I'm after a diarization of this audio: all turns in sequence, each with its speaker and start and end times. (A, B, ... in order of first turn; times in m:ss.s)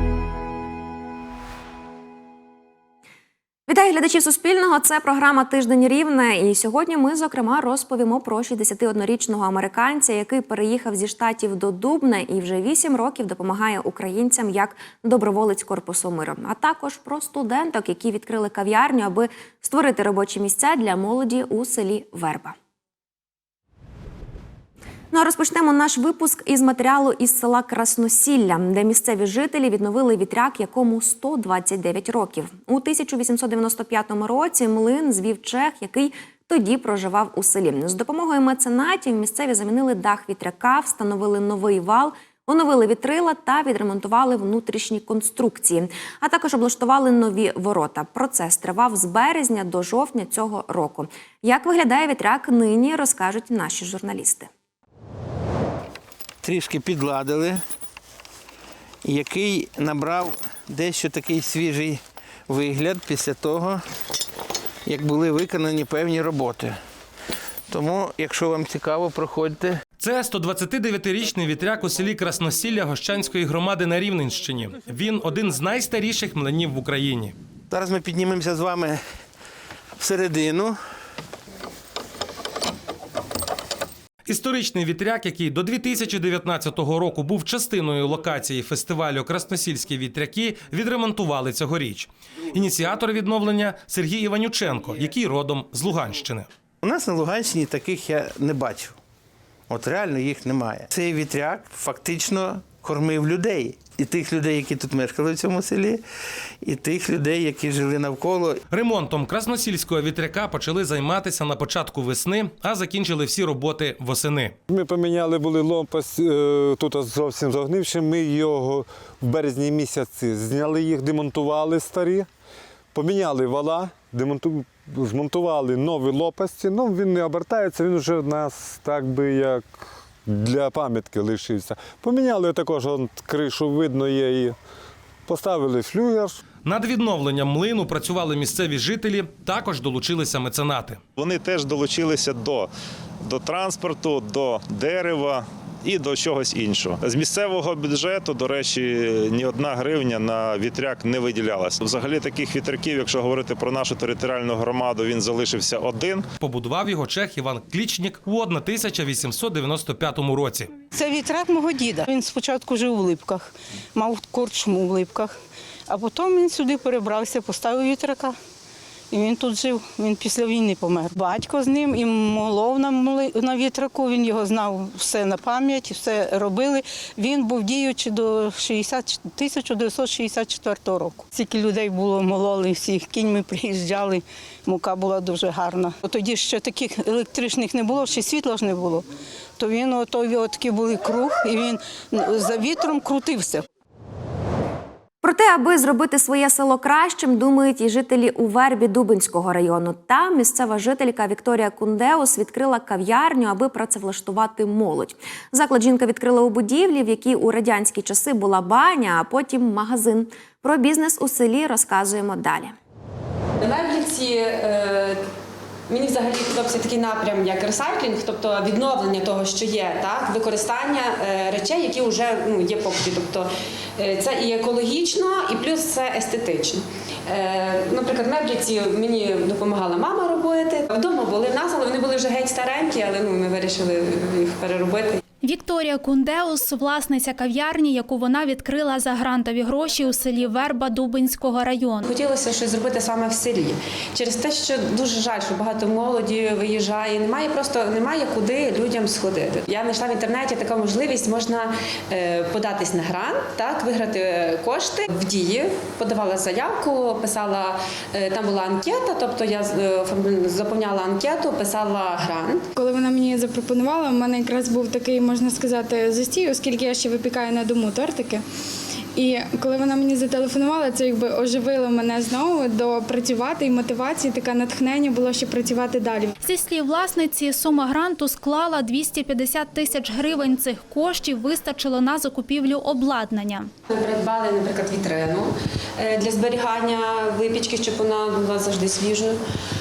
0:03.7-0:22.5 A
0:25.1-0:54.5 A
0:56.4-0:57.6 B
0:59.0-1:03.8 B
1:04.9-1:06.8 B
1:07.7-1:09.8 B
1:10.0-1:17.4 C
1:17.7-1:19.0 B
1:20.0-1:20.8 B
1:24.3-1:36.5 C
1:36.8-1:39.0 B
1:39.7-1:46.0 B
1:46.6-1:48.6 B
1:48.7-1:54.5 C
1:54.7-2:02.3 D
2:02.9-2:09.7 D
2:10.3-2:14.6 D
2:15.3-2:16.4 D
2:16.6-2:21.0 C
2:21.2-2:22.7 E
2:23.2-2:36.2 E
2:36.4-2:40.7 C
2:40.9-2:45.4 F
2:45.9-2:48.4 F
2:49.1-3:09.0 F
3:09.6-3:13.6 F
3:15.2-3:32.8 A
3:33.6-3:35.2 G
3:35.9-3:55.2 G
3:55.4-4:02.1 H
4:02.1-4:22.7 G
4:22.8-4:28.4 I
4:29.2-4:36.3 I
4:36.4-4:43.7 H
4:43.9-4:49.4 G